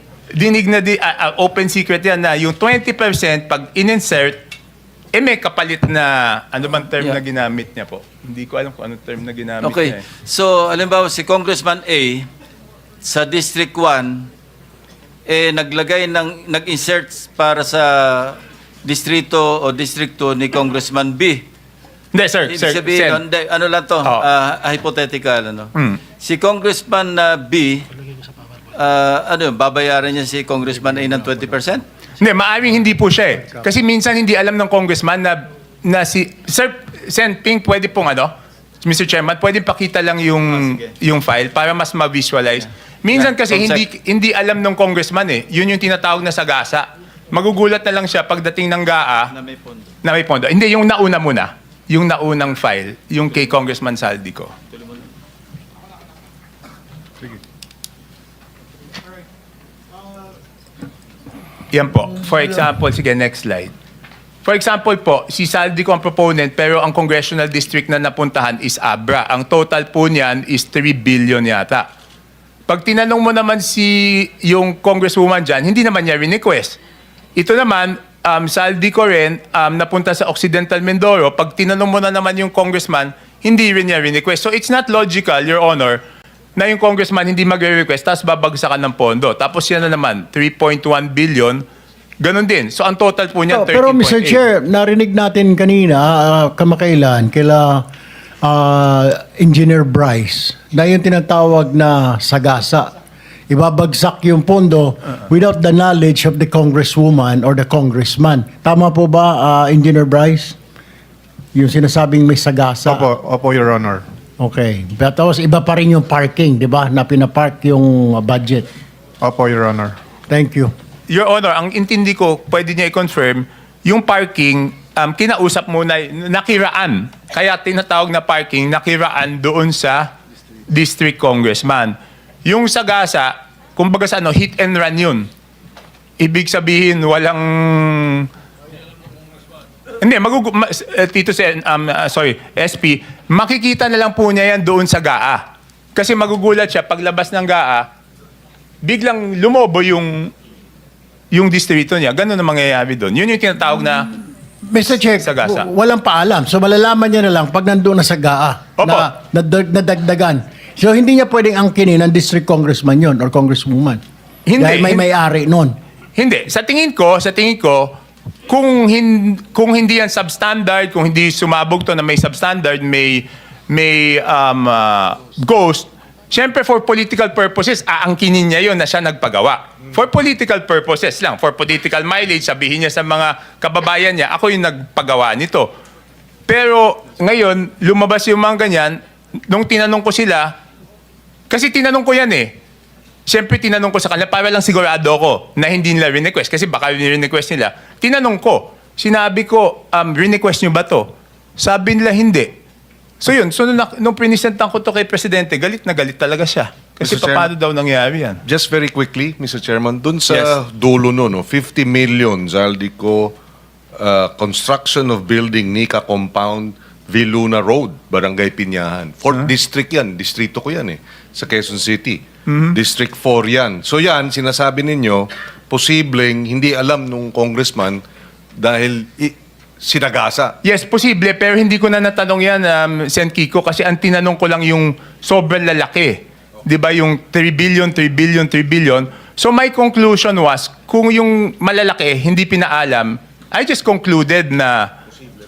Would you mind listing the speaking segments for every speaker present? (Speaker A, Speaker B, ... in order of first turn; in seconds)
Speaker A: 0.3-4.4, 5.1-10.0, 22.1-23.2, 25.8-26.0, 32.2-38.3, 38.8-49.3, 50.0-54.5, 61.7-63.7, 64.5-71.9, 72.7-76.8, 77.4-86.0, 86.6-91.6, 92.2-94.4, 121.1-130.1, 130.7-131.9, 132.5-135.3, 136.2-138.3, 140.0-145.4, 146.0-147.9, 148.8-150.3, 151.3-154.1, 155.2-155.7, 158.8-159.1, 164.5-165.0, 166.2-167.9, 168.5-185.7, 186.5-189.0, 189.5-190.5, 191.5-192.5, 193.3-202.5, 203.2-208.4, 210.3-210.6, 222.5-222.8, 230.6-244.9
Speaker B: 9.6-12.3, 13.0-14.3, 15.3-21.4, 22.5-27.9, 28.7-31.9, 40.5-40.9, 43.1-43.8, 49.4-49.8
Speaker C: 93.5-97.8, 98.4-102.9, 103.5-110.6, 111.5-113.1, 114.4-118.7, 120.3-120.7, 154.7-164.0, 164.6-165.8
Speaker D: 112.9-114.0, 119.2-120.0
Speaker E: 207.0-207.5, 208.5-213.3, 214.0-222.2, 222.7-228.0, 228.6-230.6